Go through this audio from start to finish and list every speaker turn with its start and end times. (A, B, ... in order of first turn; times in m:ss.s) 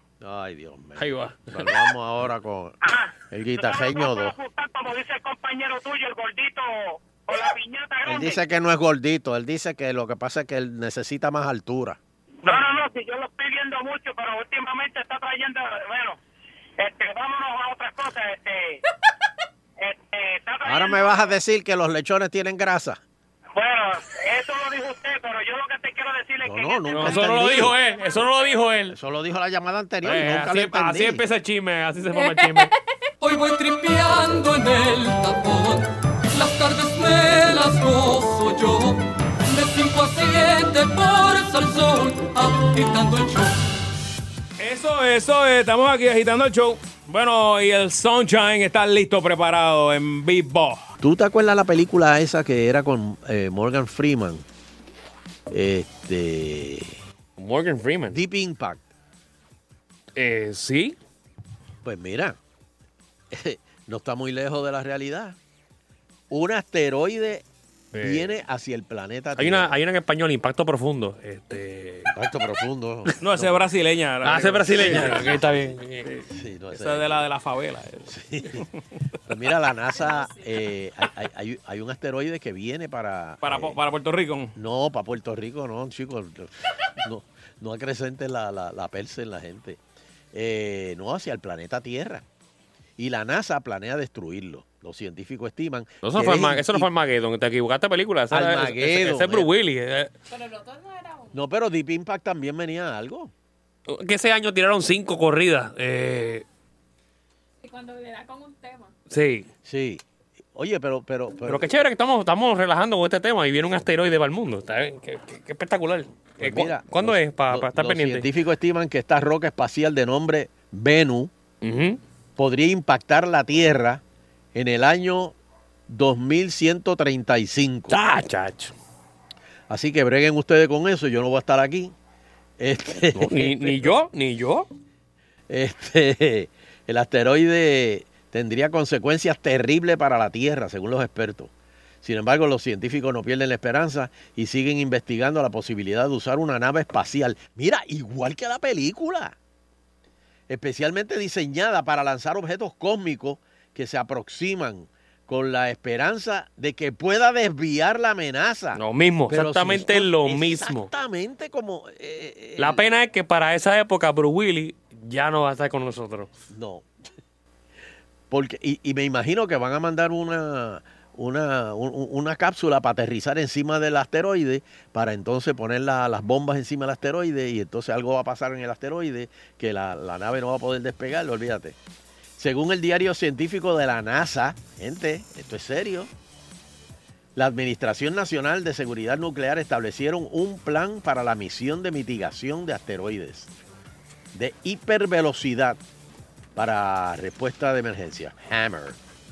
0:00.2-0:02.8 A
0:01.0-0:01.8 B
0:02.8-0:08.4 C
0:03.3-0:04.4 A
0:08.0-0:12.0 A
0:12.4-0:16.2 C
0:16.8-0:18.8 C
0:19.8-0:21.3 C
0:20.6-0:23.0 A
0:23.6-0:27.1 C
0:26.4-0:27.8 A
0:26.9-0:29.0 B
0:28.9-0:31.2 A
0:30.0-0:32.7 B
0:32.1-0:32.8 D
0:33.2-0:43.6 E
0:44.6-0:50.9 F
0:51.0-0:54.4 A
0:55.5-0:57.0 A
0:57.4-0:58.2 B
0:58.1-0:58.9 A
1:00.2-1:01.0 B
1:01.8-1:02.4 A
1:03.3-1:05.4 A
1:06.3-1:09.7 A
1:07.9-1:08.3 B
1:09.4-1:12.1 B
1:12.1-1:13.2 A
1:13.2-1:15.4 F
1:14.2-1:16.1 B
1:14.8-1:15.4 A
1:16.0-1:18.7 F
1:16.3-1:17.2 A
1:18.1-1:18.6 A
1:19.3-1:23.8 A
1:20.0-1:20.5 D
1:23.4-1:24.6 F
1:24.6-1:29.8 A
1:30.3-1:32.2 A
1:33.0-1:36.9 A
1:36.0-1:40.1 B
1:38.3-1:39.5 A
1:40.3-1:41.4 D
1:41.3-1:43.3 A
1:43.9-1:46.4 B
1:47.6-1:48.9 D
1:49.1-1:49.5 B
1:49.6-1:50.0 A
1:50.6-1:51.7 A
1:51.5-1:58.3 B
1:56.4-2:01.3 A
2:01.6-2:02.0 B
2:02.4-2:04.0 A
2:04.6-2:05.4 A
2:05.9-2:08.0 A
2:07.9-2:08.7 B
2:09.7-2:11.9 A
2:12.6-2:13.9 A
2:13.2-2:14.7 B
2:15.5-2:21.5 A
2:22.0-2:29.4 A
2:30.5-2:42.8 A
2:38.8-2:40.9 B
2:42.6-2:46.3 B
2:46.5-2:46.9 A
2:48.3-3:01.8 A
3:02.4-3:06.1 A
3:07.4-3:13.5 A
3:14.3-3:15.8 A
3:16.6-3:19.0 A